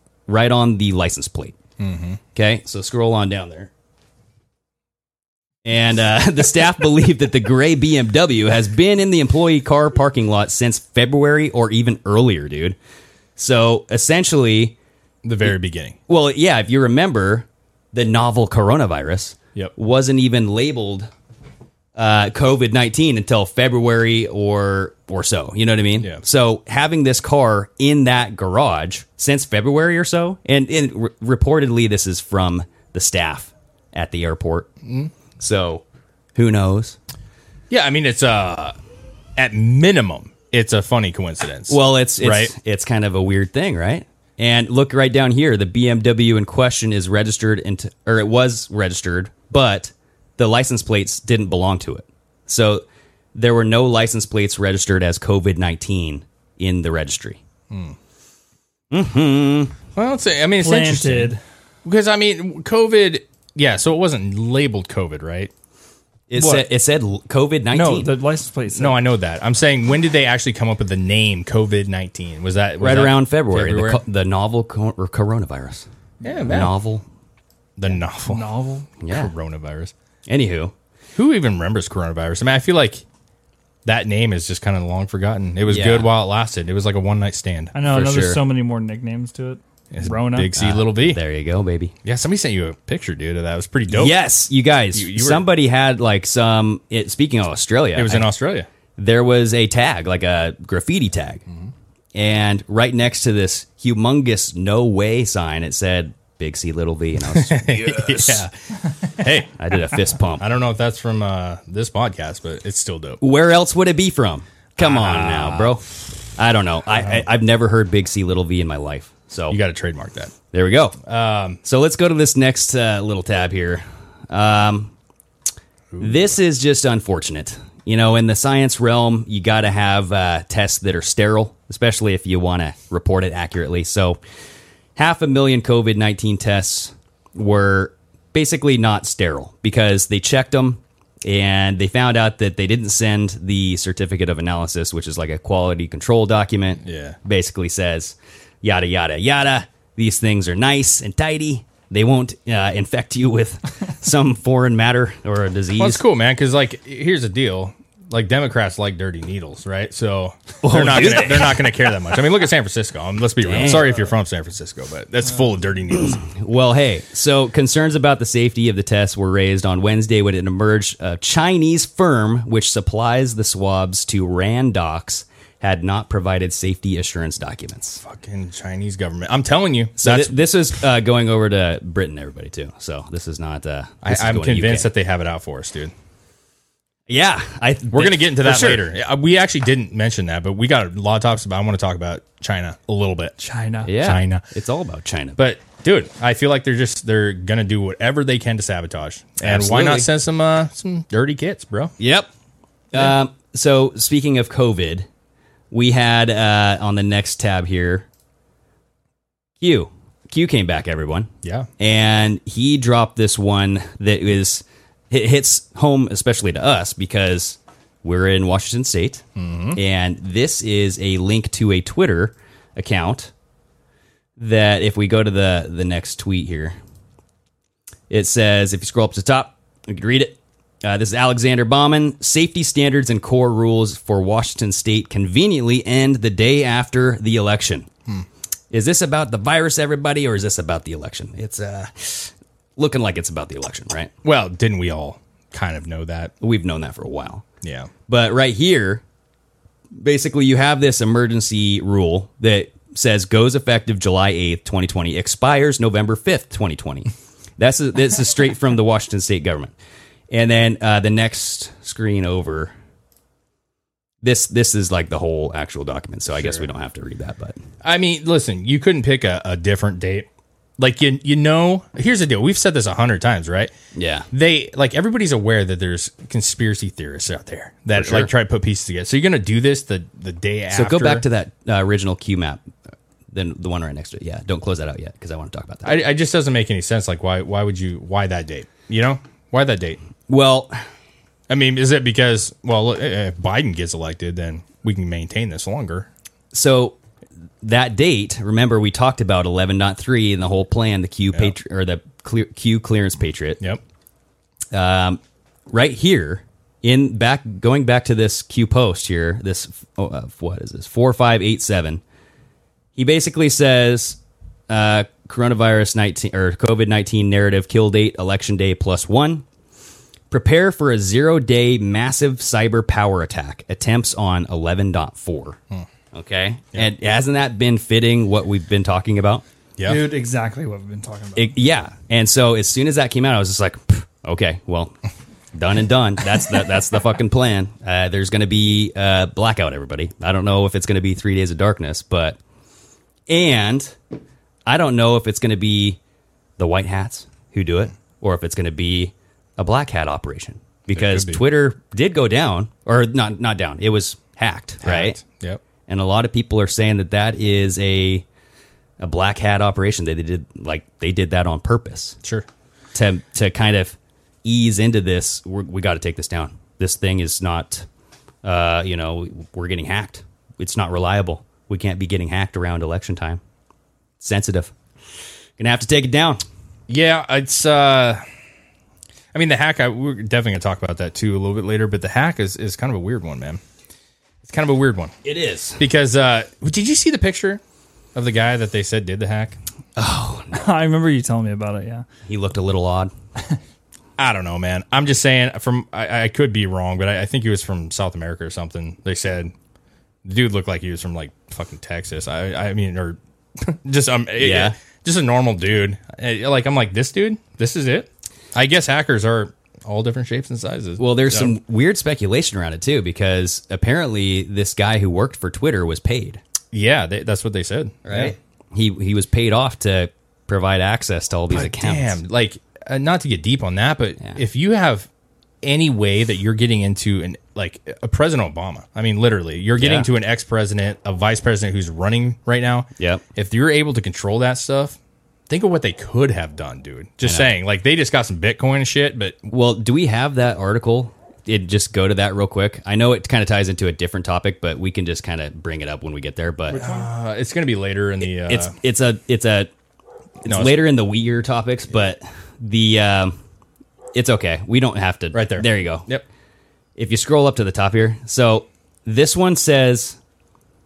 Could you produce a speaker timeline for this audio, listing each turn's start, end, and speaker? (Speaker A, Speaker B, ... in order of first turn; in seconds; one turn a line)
Speaker A: 0.3-1.6
Speaker B: 1.8-2.2
Speaker A: 2.3-3.7
Speaker A: 5.6-12.8
Speaker A: 13.4-14.7
Speaker B: 15.2-16.0
Speaker A: 16.1-21.1
Speaker A: 21.9-34.7
Speaker B: 34.8-35.1
Speaker A: 35.4-35.8
Speaker A: 36.3-37.0
Speaker B: 37.7-38.8
Speaker B: 39.4-42.5
Speaker A: 41.7-52.8
Speaker A: 53.3-57.4
Speaker B: 57.7-58.0
Speaker A: 58.9-59.7
Speaker B: 59.9-65.5
Speaker C: 60.6-61.4
Speaker A: 66.3-68.1
Speaker C: 66.3-66.7
Speaker B: 67.7-68.0
Speaker C: 67.8-69.0
Speaker B: 68.7-74.0
Speaker A: 72.8-75.8
Speaker B: 76.2-76.7
Speaker A: 76.5-77.0
Speaker B: 77.8-78.5
Speaker C: 78.3-78.9
Speaker A: 79.0-79.3
Speaker B: 79.1-79.9
Speaker A: 80.3-80.7
Speaker B: 81.2-83.0
Speaker B: 83.8-87.7
Speaker A: 85.7-86.1
Speaker C: 87.7-90.5
Speaker A: 87.8-88.4
Speaker B: 89.9-91.2
Speaker A: 90.6-91.9
Speaker B: 92.0-94.2
Speaker A: 93.9-98.3
Speaker B: 94.9-95.4
Speaker B: 97.9-98.7
Speaker A: 99.0-101.4
Speaker A: 102.1-108.4
Speaker B: 107.3-109.6
Speaker A: 109.6-110.4
Speaker B: 110.3-113.2
Speaker A: 113.2-119.6
Speaker B: 114.8-116.1
Speaker B: 116.9-117.2
Speaker B: 119.5-120.3
Speaker A: 120.5-121.0
Speaker B: 121.0-121.6
Speaker A: 121.6-124.9
Speaker B: 125.9-126.4
Speaker A: 126.0-134.2
Speaker A: 134.9-156.0
Speaker B: 146.8-147.2
Speaker B: 155.8-166.2
Speaker A: 160.6-161.7
Speaker A: 163.4-164.1
Speaker A: 166.0-178.0
Speaker B: 178.0-180.3
Speaker A: 180.0-184.9
Speaker B: 184.0-185.9
Speaker A: 187.1-188.8
Speaker B: 187.9-193.4
Speaker C: 193.4-193.9
Speaker A: 193.8-195.4
Speaker B: 194.0-194.4
Speaker B: 195.4-201.9
Speaker A: 199.4-200.1
Speaker A: 202.0-202.3
Speaker A: 202.9-205.1
Speaker A: 205.7-208.1
Speaker A: 209.6-219.2
Speaker B: 219.3-219.8
Speaker A: 219.7-223.3
Speaker A: 224.4-226.8
Speaker A: 228.1-237.9
Speaker A: 238.7-244.1
Speaker B: 244.2-246.3
Speaker A: 246.4-247.4
Speaker B: 247.6-247.9
Speaker A: 248.1-249.0
Speaker A: 249.9-259.7
Speaker A: 260.3-262.7
Speaker A: 264.2-267.6
Speaker B: 266.4-266.6
Speaker B: 267.8-270.3
Speaker B: 270.8-273.7
Speaker A: 273.9-274.3
Speaker B: 274.3-281.2
Speaker A: 277.9-278.3
Speaker A: 280.7-282.6
Speaker A: 283.3-286.0
Speaker B: 285.8-290.0
Speaker A: 290.3-290.8
Speaker B: 291.5-296.1
Speaker A: 296.5-297.0
Speaker A: 297.6-303.6
Speaker A: 304.7-312.0
Speaker A: 312.9-319.4
Speaker A: 320.3-325.6
Speaker A: 326.1-329.4
Speaker C: 329.8-331.5
Speaker A: 331.4-334.9
Speaker A: 335.5-342.4
Speaker A: 343.3-343.9
Speaker A: 344.6-346.0
Speaker A: 346.6-355.2
Speaker B: 350.9-351.4
Speaker B: 354.8-355.6
Speaker A: 355.9-358.2
Speaker A: 359.0-362.1
Speaker A: 362.9-367.8
Speaker A: 368.4-373.4
Speaker A: 374.2-374.7
Speaker A: 375.6-376.4
Speaker B: 376.9-378.2
Speaker B: 379.3-383.6
Speaker B: 384.4-385.1
Speaker A: 385.2-385.8
Speaker B: 385.8-387.6
Speaker B: 388.1-389.6
Speaker A: 389.9-390.6
Speaker C: 390.5-392.0
Speaker A: 392.3-393.1
Speaker B: 394.2-399.5
Speaker B: 400.2-411.6
Speaker A: 404.4-404.7
Speaker A: 411.0-416.4
Speaker B: 416.7-418.4
Speaker A: 418.0-422.2
Speaker B: 421.5-425.1
Speaker B: 425.6-435.0
Speaker A: 429.8-430.1
Speaker B: 435.5-439.4
Speaker A: 437.2-437.5
Speaker A: 439.5-446.8
Speaker C: 446.7-447.1
Speaker B: 446.7-448.7
Speaker A: 448.4-449.7
Speaker A: 450.4-453.4
Speaker B: 450.4-450.8
Speaker A: 454.1-456.1
Speaker B: 455.3-456.2
Speaker A: 457.0-460.2